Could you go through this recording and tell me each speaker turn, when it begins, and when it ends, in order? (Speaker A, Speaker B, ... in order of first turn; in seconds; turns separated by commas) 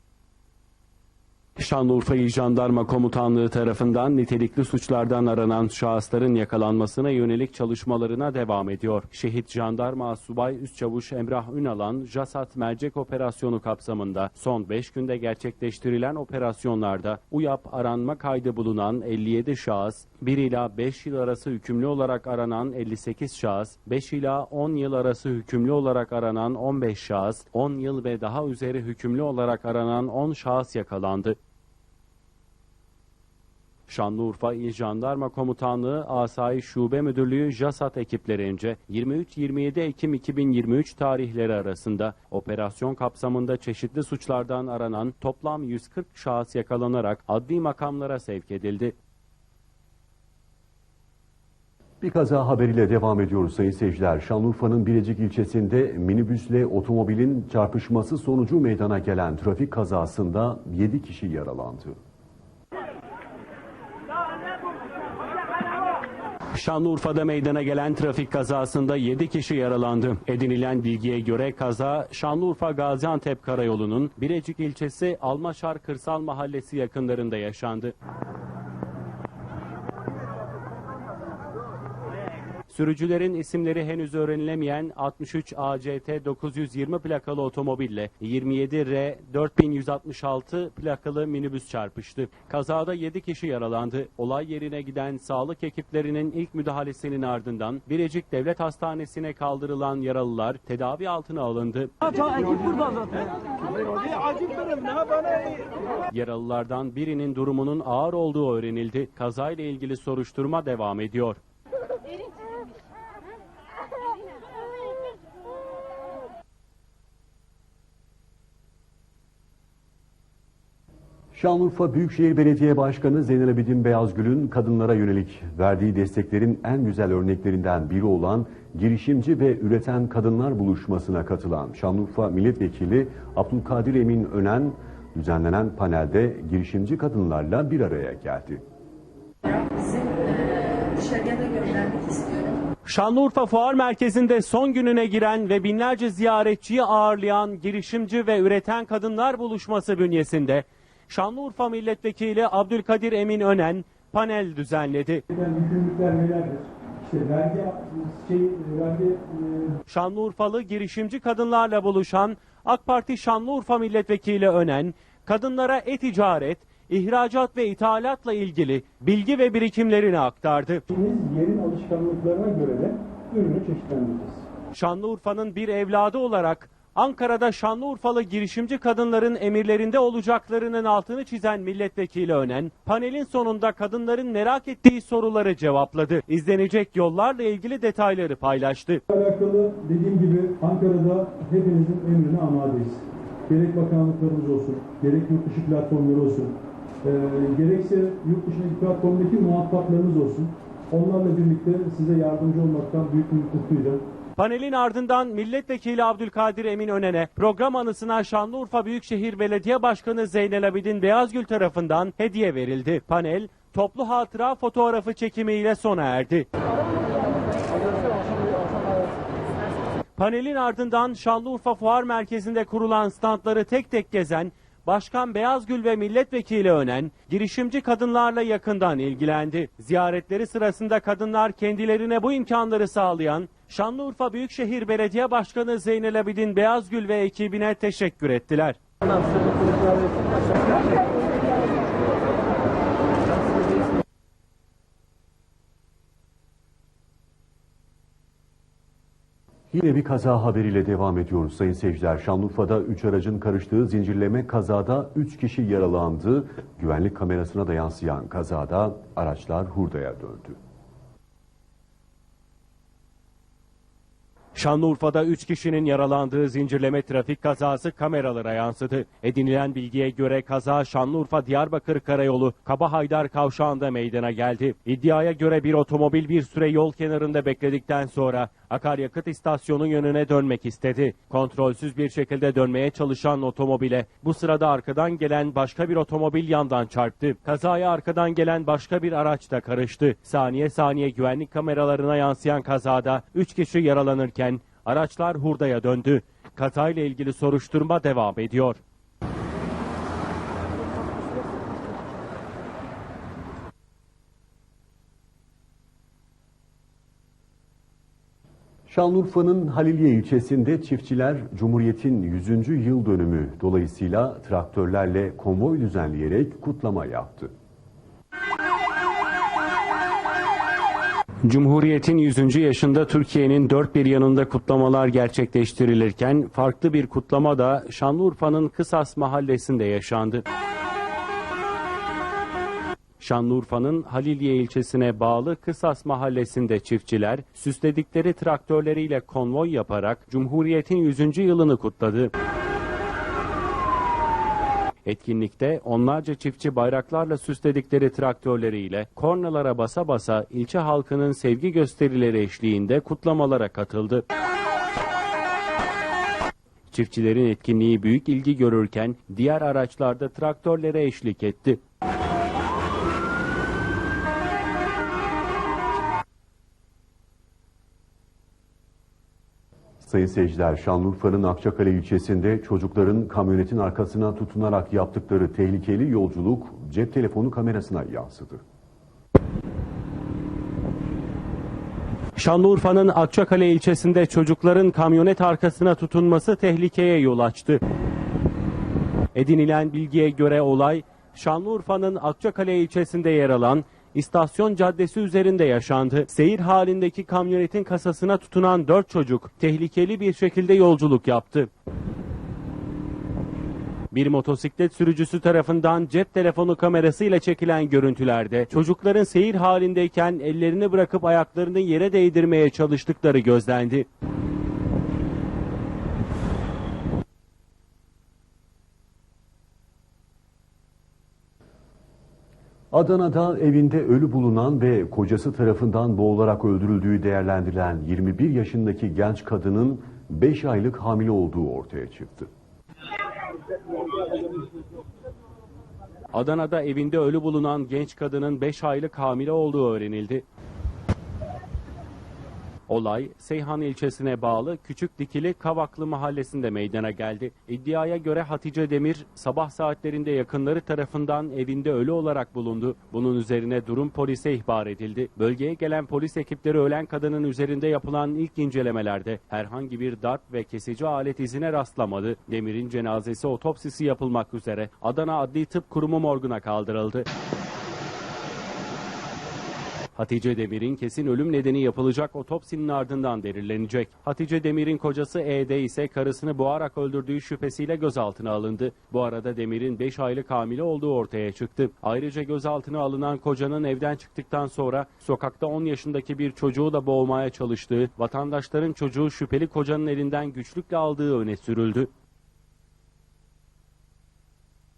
Speaker A: 1.6-31.4, Speaker A: 33.9-48.9, Speaker B: 52.0-62.0, Speaker A: 66.5-77.9, Speaker A: 82.7-103.0, Speaker A: 106.1-111.4, Speaker B: 121.3-138.6, Speaker C: 139.5-142.6, Speaker A: 142.8-155.2, Speaker D: 155.3-159.8, Speaker A: 159.9-170.8, Speaker D: 170.9-174.4, Speaker A: 174.7-189.0, Speaker D: 189.1-204.0, Speaker A: 204.4-216.5, Speaker A: 220.2-238.8, Speaker B: 249.7-260.6, Speaker A: 264.5-298.8, Speaker B: 308.9-317.5, Speaker A: 321.4-330.4, Speaker A: 333.2-342.3, Speaker A: 345.0-354.2, Speaker A: 356.9-361.8, Speaker B: 370.0-378.6, Speaker A: 382.4-387.8, Speaker A: 389.3-401.7, Speaker A: 404.1-414.1, Speaker B: 422.9-432.5, Speaker A: 436.3-440.4, Speaker A: 442.9-467.3, Speaker A: 470.1-492.1